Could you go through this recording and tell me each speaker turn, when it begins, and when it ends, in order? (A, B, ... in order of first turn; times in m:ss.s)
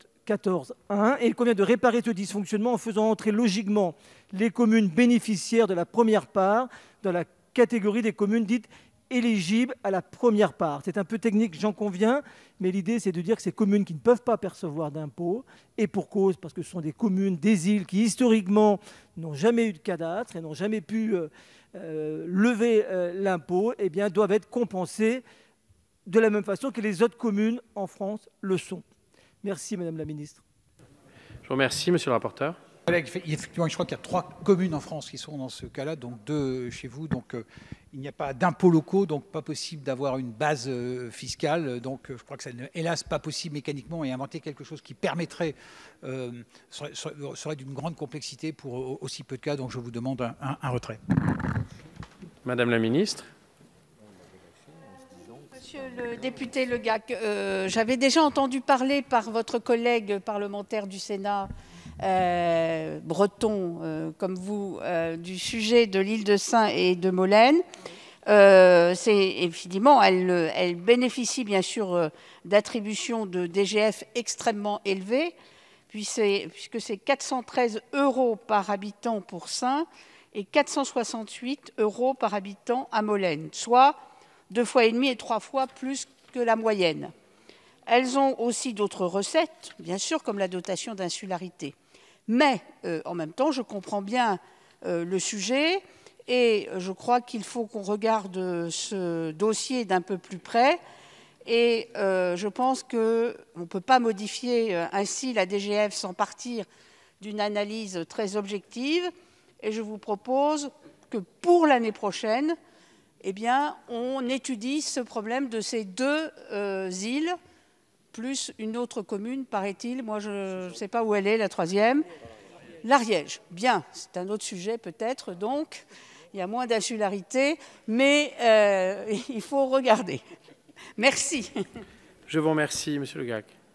0:00.2-0:25.2 A
0:26.1-0:28.8 A
0:29.4-0:30.4 A
0:31.4-0:32.6 B
0:32.9-0:51.0 C
0:52.4-0:53.3 B
0:55.5-1:01.5 D
1:02.0-1:07.6 D
1:08.3-1:15.3 D
1:15.9-1:24.0 D
1:24.5-1:27.1 D
1:27.9-1:31.7 D
1:32.3-1:40.8 D
1:41.4-1:46.6 D
1:47.2-1:49.1 D
1:49.6-1:52.5 D
1:53.2-1:57.3 D
1:58.1-2:02.0 D
2:02.8-2:10.2 D
2:11.0-2:11.5 D
2:12.3-2:13.5 B